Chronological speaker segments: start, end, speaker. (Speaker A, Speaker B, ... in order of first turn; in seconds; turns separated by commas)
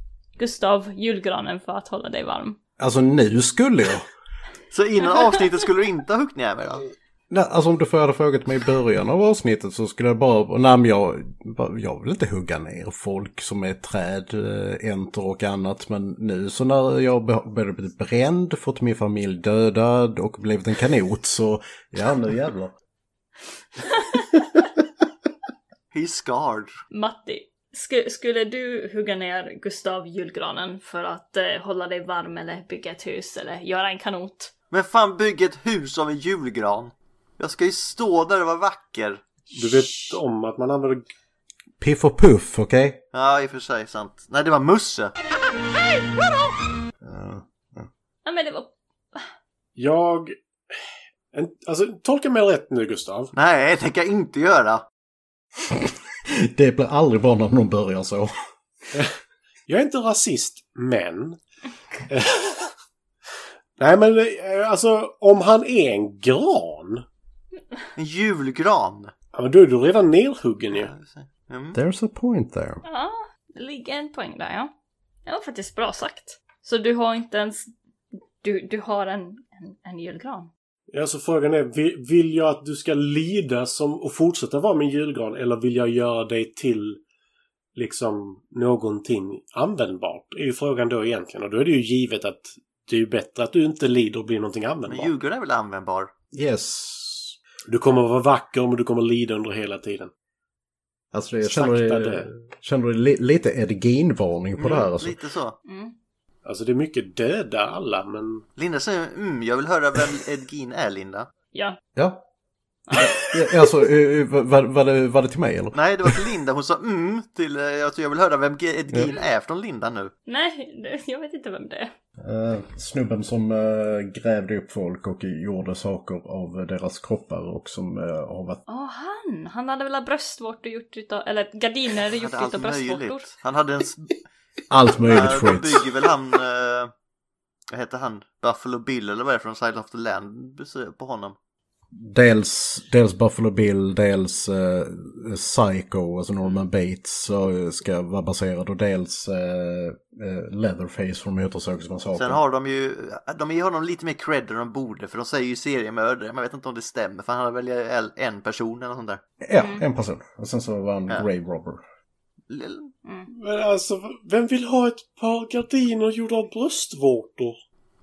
Speaker A: 0.4-2.6, Speaker B: 2.8-4.1, Speaker C: 4.7-6.9, Speaker B: 7.3-22.7, Speaker C: 25.9-26.7, Speaker A: 26.9-34.5, Speaker C: 34.7-39.2, Speaker D: 39.5-41.1, Speaker B: 41.8-43.0, Speaker C: 43.1-45.1, Speaker B: 47.0-47.9, Speaker A: 48.2-49.3, Speaker D: 49.8-50.3, Speaker D: 51.3-53.3, Speaker C: 53.3-54.8, Speaker B: 55.6-58.3, Speaker D: 59.7-61.4, Speaker D: 62.1-62.7, Speaker D: 63.8-67.0, Speaker C: 68.0-69.1, Speaker D: 69.3-70.9, Speaker C: 70.7-71.8, Speaker B: 71.7-72.8, Speaker A: 72.8-74.7, Speaker A: 75.2-77.7, Speaker A: 78.4-80.5, Speaker D: 80.9-87.0, Speaker D: 87.8-95.1, Speaker C: 94.9-96.1, Speaker B: 96.3-97.3, Speaker D: 97.7-100.1, Speaker B: 101.1-105.2, Speaker D: 101.4-102.3, Speaker C: 104.6-105.5, Speaker A: 105.6-105.9, Speaker D: 106.4-108.5, Speaker C: 108.5-111.3, Speaker A: 111.5-111.8, Speaker B: 112.0-112.2, Speaker A: 112.9-113.2, Speaker B: 112.9-116.2, Speaker C: 115.7-120.1, Speaker B: 118.9-119.2, Speaker A: 120.3-121.9, Speaker B: 122.2-128.6, Speaker A: 128.7-133.3, Speaker C: 132.0-134.2, Speaker B: 134.7-135.9, Speaker C: 135.0-136.9, Speaker C: 137.7-141.3, Speaker B: 141.9-152.4, Speaker C: 152.2-159.2, Speaker B: 159.4-161.8, Speaker A: 159.6-159.8, Speaker C: 162.5-162.9, Speaker D: 163.3-167.6